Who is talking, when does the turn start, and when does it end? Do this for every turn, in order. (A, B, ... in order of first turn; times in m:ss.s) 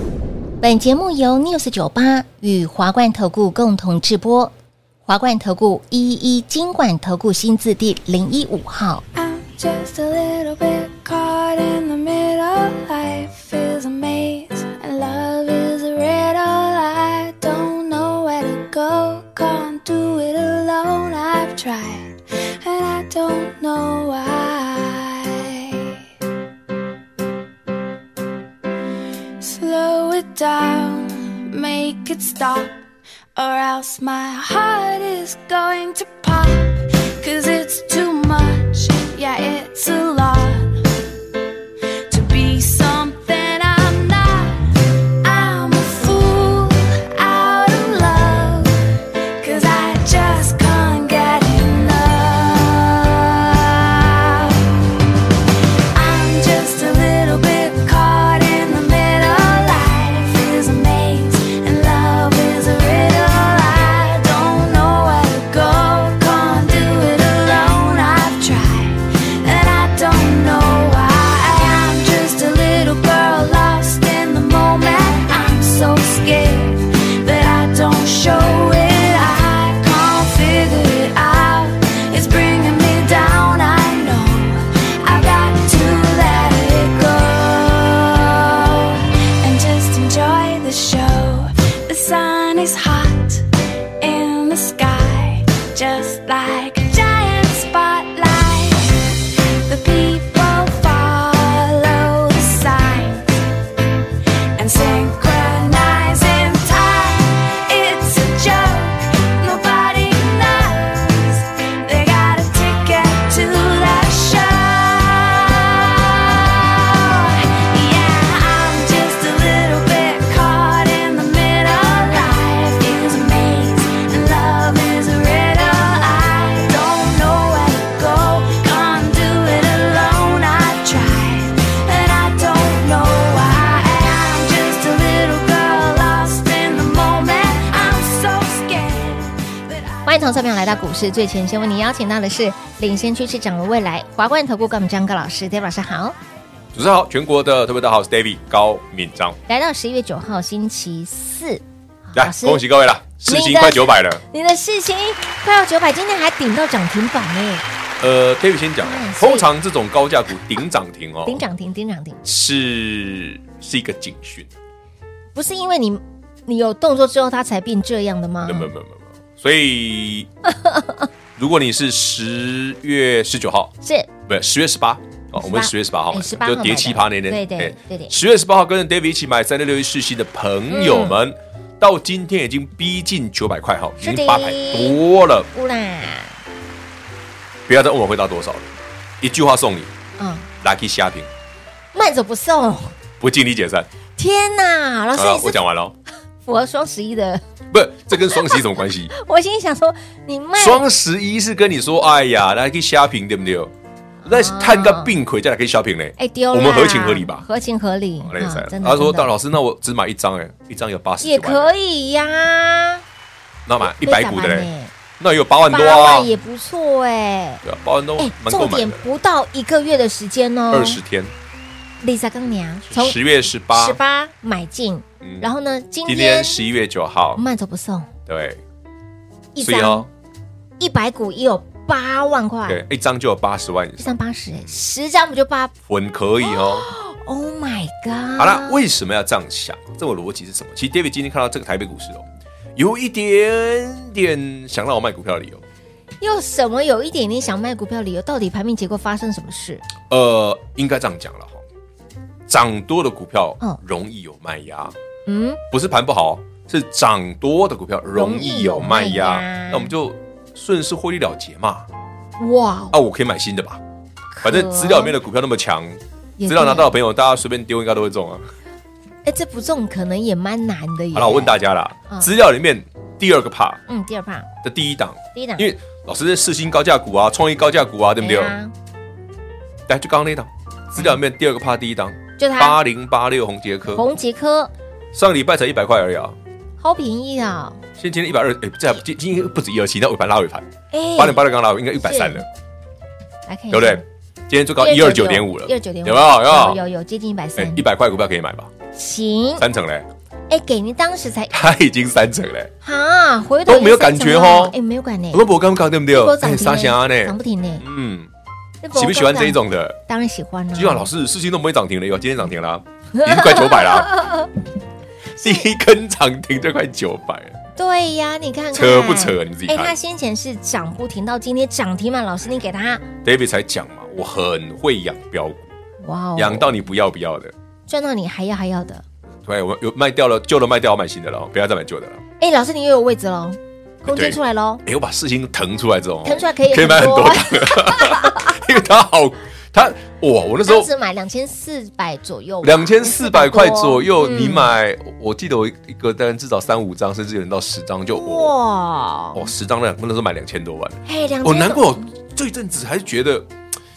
0:00.6-0:04.5 A
0:05.1-0:09.0 A
0:09.1-0:26.0 B
0:29.4-0:32.8 B
0:33.4-0:40.8 B
0:42.1-0:54.7 B
0:55.9-1:43.4 B
1:44.6-2:20.1 B
2:20.1-2:26.2 A
2:26.7-2:29.4 C
2:29.5-2:32.6 A
2:32.2-2:34.2 C
2:33.2-2:37.6 A
2:38.0-2:41.4 C
2:38.8-2:39.5 A
2:41.3-2:42.2 A
2:42.2-2:44.5 C
2:45.4-2:48.7 A
2:48.4-2:50.3 C
2:50.5-2:51.0 A
2:51.4-2:53.7 C
2:53.8-2:54.1 A
2:54.3-3:05.5 C
2:55.4-2:58.2 A
3:00.7-3:01.2 A
3:04.0-3:05.0 A
3:05.5-3:06.4 A
3:07.7-3:09.9 C
3:10.2-3:10.5 A
3:10.6-3:11.3 C
3:11.9-3:13.0 A
3:13.2-3:13.9 C
3:14.2-3:15.6 A
3:15.2-3:16.0 C
3:16.5-3:17.4 A
3:17.7-3:19.1 C
3:18.1-3:20.8 A
3:20.6-3:23.7 C
3:24.2-3:25.2 A
3:24.3-3:27.4 C
3:26.2-3:29.3 A
3:28.2-3:31.7 C
3:31.2-3:33.0 A
3:33.7-3:36.3 C
3:33.8-3:34.9 A
3:35.7-3:37.6 A
3:37.6-3:39.0 C
3:38.2-3:41.0 A
3:40.7-3:41.3 C
3:42.0-3:43.2 A
3:42.9-3:44.0 C
3:43.7-3:46.6 A
3:45.2-3:45.5 C
3:46.1-3:47.4 C
3:47.4-3:48.1 A
3:48.3-3:48.6 C
3:49.6-3:50.1 A
3:49.6-3:50.1 C
3:50.8-3:52.8 A
3:52.7-3:54.7 C
3:54.0-3:55.7 A
3:55.9-3:56.9 C
3:56.4-3:58.8 A
3:58.4-4:02.2 C
4:02.8-4:05.6 C
4:06.2-4:09.8 A
4:10.1-4:11.6 C
4:12.5-4:14.9 C
4:15.3-4:15.6 A
4:15.7-4:21.9 C
4:18.2-4:19.9 A
4:22.4-4:23.0 A
4:22.9-4:23.8 C
4:24.3-4:25.2 A
4:24.4-4:28.5 C
4:26.4-4:26.9 A
4:29.2-4:31.6 A
4:31.1-4:33.8 C
4:33.9-4:34.5 A
4:34.6-4:38.6 C
4:35.4-4:35.7 A
4:38.2-4:38.7 A
4:39.9-4:44.1 C
4:42.4-4:42.8 A
4:43.9-4:44.7 A
4:45.1-4:46.4 C
4:46.8-4:47.8 A
4:48.0-4:52.5 C
4:50.9-4:51.4 A
4:52.0-4:52.4 A
4:53.5-4:54.0 A
4:53.7-4:56.8 C
4:54.8-4:57.8 A
4:57.6-4:58.7 C
4:58.9-4:59.6 A
4:59.6-5:00.1 C
5:00.5-5:01.6 A
5:01.5-5:02.7 C
5:02.8-5:05.4 A
5:03.7-5:04.8 C
5:05.3-5:08.3 C
5:06.1-5:07.8 A
5:08.8-5:11.1 A
5:09.0-5:10.0 C
5:10.8-5:14.4 C
5:13.2-5:14.5 A
5:15.4-5:17.6 C
5:17.8-5:23.1 A
5:18.7-5:19.9 C
5:23.2-5:25.7 C
5:26.0-5:26.8 A
5:26.4-5:27.5 C
5:27.9-5:29.0 A
5:29.4-5:32.2 C
5:32.4-5:34.8 A
5:34.1-5:40.9 C
5:36.2-5:38.7 A
5:40.6-5:44.7 A
5:42.6-5:48.5 C
5:48.1-5:49.5 A
5:49.4-5:53.5 C
5:51.0-5:52.1 A